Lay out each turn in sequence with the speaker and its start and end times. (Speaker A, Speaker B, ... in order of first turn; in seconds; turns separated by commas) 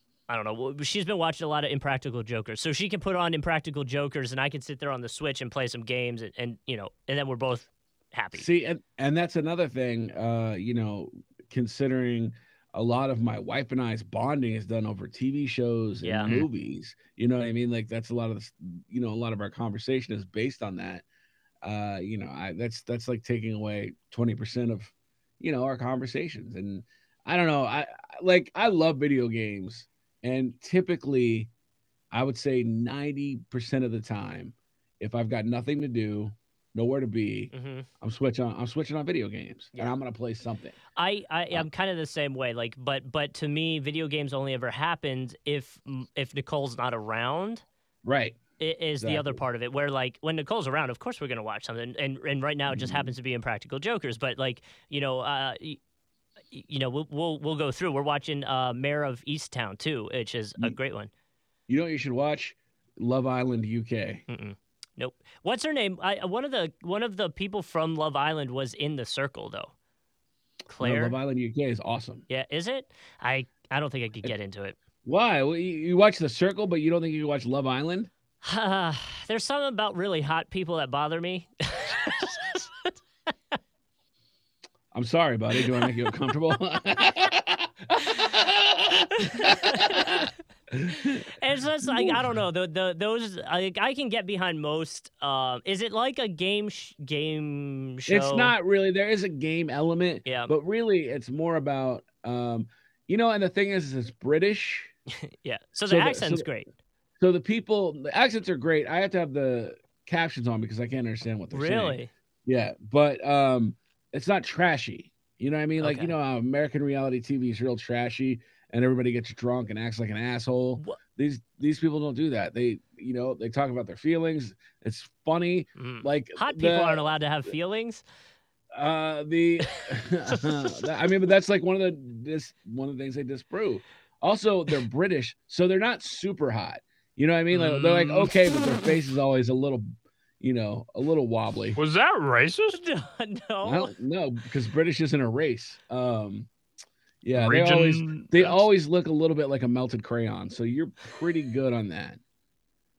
Speaker A: 0.3-8.5, Speaker B: 8.3-21.0, Speaker A: 16.0-16.4, Speaker B: 21.6-31.5, Speaker B: 32.1-40.7, Speaker A: 37.5-37.9, Speaker A: 41.0-47.6, Speaker B: 48.0-48.4, Speaker A: 48.6-55.8, Speaker B: 49.0-49.4, Speaker B: 52.7-53.1, Speaker A: 56.5-61.1, Speaker B: 61.7-64.2, Speaker A: 64.3-69.7, Speaker A: 70.7-71.1, Speaker B: 70.8-72.2, Speaker A: 72.3-74.8, Speaker B: 75.0-78.1, Speaker A: 78.4-83.0, Speaker B: 84.9-91.3, Speaker A: 89.2-90.2, Speaker A: 91.0-98.5, Speaker B: 91.8-92.2, Speaker B: 98.1-104.9, Speaker A: 100.2-100.5, Speaker A: 105.4-106.7, Speaker B: 105.9-106.5, Speaker B: 107.2-127.1, Speaker A: 111.5-112.1, Speaker A: 115.8-116.1, Speaker A: 125.8-128.0, Speaker B: 128.7-139.9, Speaker A: 129.8-130.9, Speaker C: 137.5-138.3, Speaker B: 140.4-141.8, Speaker C: 141.8-142.8, Speaker A: 142.7-143.9, Speaker B: 143.6-146.5, Speaker B: 147.2-152.2, Speaker C: 147.3-148.7